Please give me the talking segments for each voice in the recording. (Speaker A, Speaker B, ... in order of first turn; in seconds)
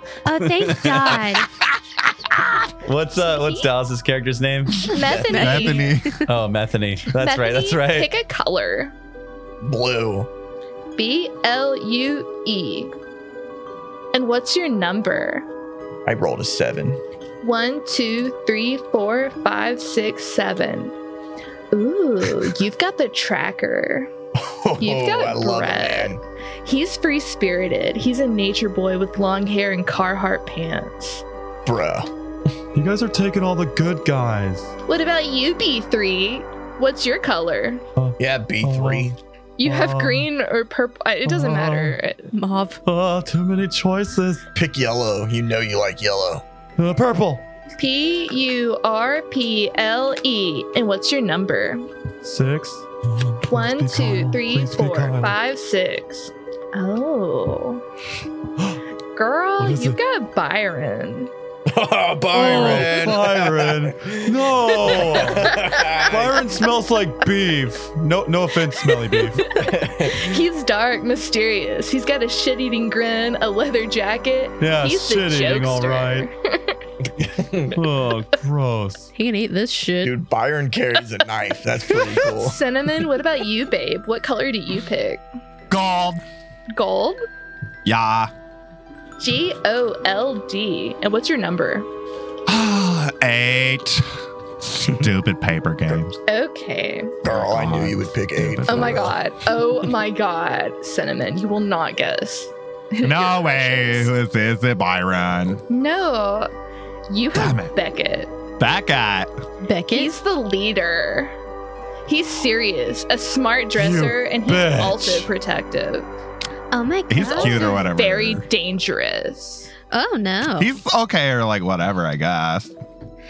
Speaker A: 0.2-1.5, 116.7-117.8
Speaker B: 0.7-1.0, 2.8-4.9, 6.2-8.1
Speaker C: 3.1-3.7, 4.8-5.9, 7.1-8.9, 11.0-12.9, 14.1-15.5, 17.4-20.9, 21.7-24.1, 24.8-31.2, 34.9-37.8, 39.6-42.3, 47.8-51.9, 53.5-57.8, 59.1-61.3, 65.5-66.0, 69.5-76.8, 82.2-85.2, 86.7-87.2, 89.2-91.9, 96.2-97.2, 98.7-104.1, 105.7-106.5, 107.1-108.4, 109.9-111.3, 112.0-116.1, 117.2-119.7
Speaker D: 5.0-5.4, 9.6-10.3, 16.1-17.0, 24.4-26.2, 31.6-32.1, 38.2-39.1, 44.5-46.4, 61.7-66.3, 69.5-70.3, 77.2-77.8, 80.0-82.6, 97.2-99.1
Speaker E: 5.2-6.2, 85.7-86.2, 87.8-88.3, 92.5-94.0, 94.6-96.2, 97.2-99.1, 103.0-105.6, 107.3-107.7, 108.6-109.3, 117.1-118.4, 120.6-122.7
Speaker F: 5.3-6.2, 42.3-42.8, 62.4-62.9, 79.1-80.2, 109.6-110.1, 119.9-120.7
Speaker G: 32.7-34.8, 38.0-40.3, 41.2-42.0, 42.8-44.5, 46.8-47.5, 52.2-55.4, 59.6-60.0, 62.4-69.5, 74.6-76.3, 77.7-79.1, 113.8-115.3